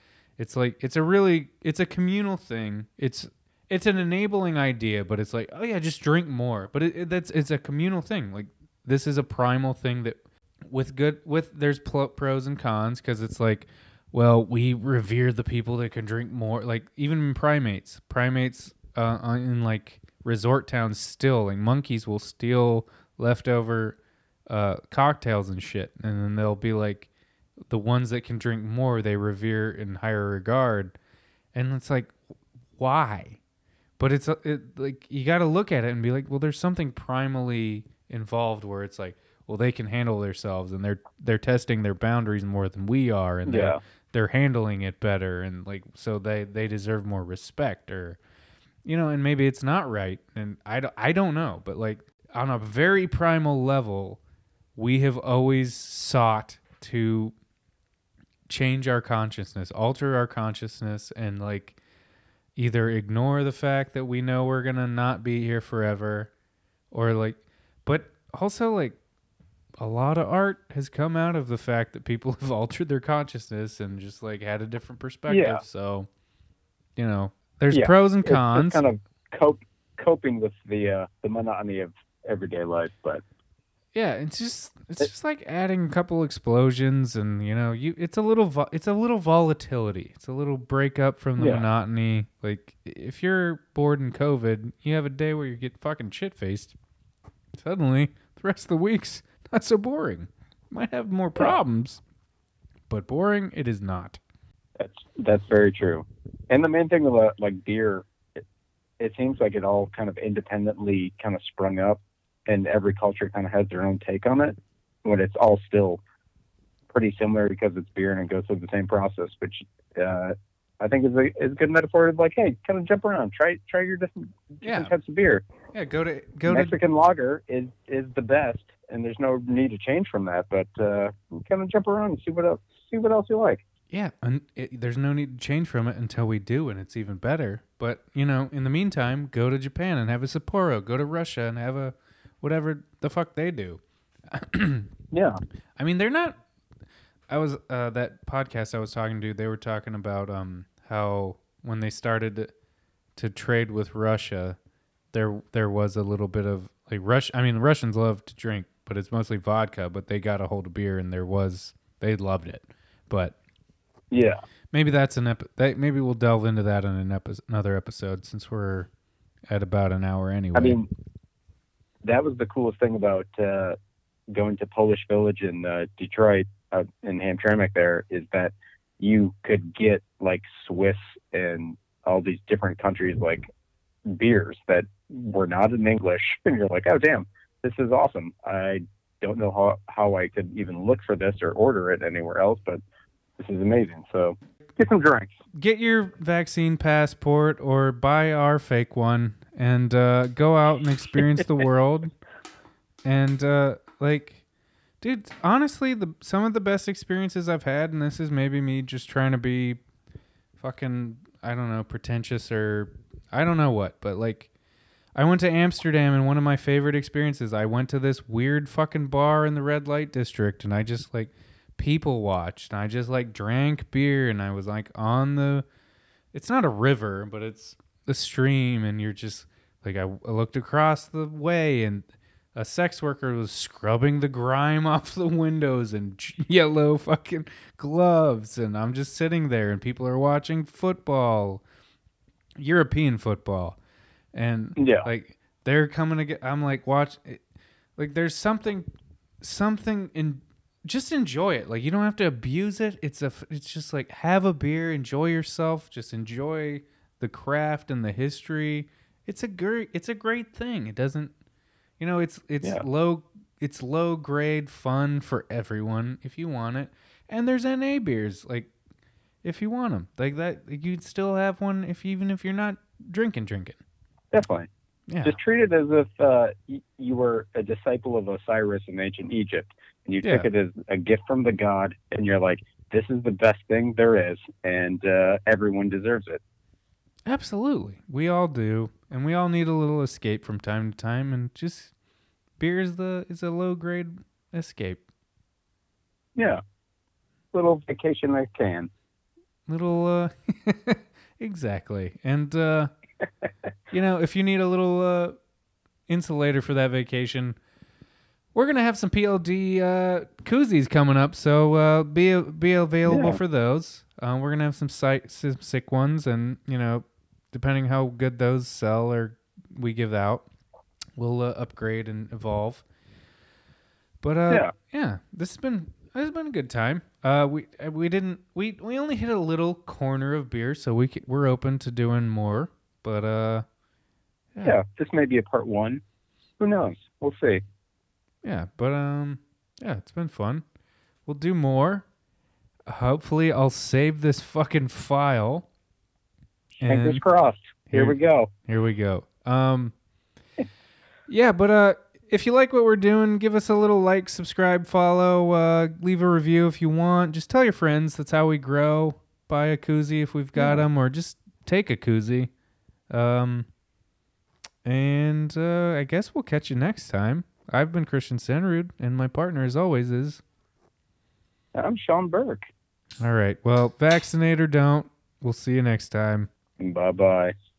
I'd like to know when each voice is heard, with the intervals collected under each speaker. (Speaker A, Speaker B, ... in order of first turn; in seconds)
Speaker A: 0.4-27.1, 27.7-30.9, 31.5-32.1, 32.8-33.4, 34.0-48.2, 48.8-54.2, 54.8-57.3, 58.5-61.8, 62.5-66.3, 66.9-69.0, 69.8-76.1, 77.0-78.8, 83.9-96.7, 97.5-102.0, 102.9-104.2, 124.6-124.9, 125.7-126.8, 133.9-144.9, 145.8-146.4, 147.3-152.5, 153.2-154.6, 155.1-163.3, 164.7-168.9, 169.5-170.8, 195.5-202.1, 203.0-204.4, 205.0-209.8, 210.6-214.5, 215.1-225.7, 226.3-241.6, 242.6-243.8, 244.3-247.4, 248.0-248.9, 249.4-261.3, 262.0-268.7, 269.4-273.8, 275.1-275.4, 280.2-280.5, 287.2-291.9, 292.6-295.0, 299.7-302.9, 303.9-305.4, 306.1-307.6, 308.5-320.4, 321.1-322.8, 324.2-333.6, 334.5-334.8, 338.4-340.6, 341.2-342.1, 342.9-345.7, 346.8-347.2, 347.9-349.9, 351.3-362.5, 363.1-363.7, 364.8-370.4, 373.2-376.5
Speaker B: 43.5-43.8, 75.3-75.6, 77.7-83.2, 91.4-91.7, 104.8-108.1, 109.0-116.0, 116.9-125.4, 126.5-133.6, 145.1-145.4, 164.1-164.4, 170.5-170.9, 172.0-173.8, 174.3-183.5, 184.1-192.8, 193.4-195.3, 244.8-245.1, 274.3-274.7, 275.2-286.4, 296.4-296.6, 297.5-298.9, 313.1-313.4, 334.6-336.0, 336.6-337.6, 346.8-348.5, 360.6-360.8, 371.7-372.7, 376.8-377.5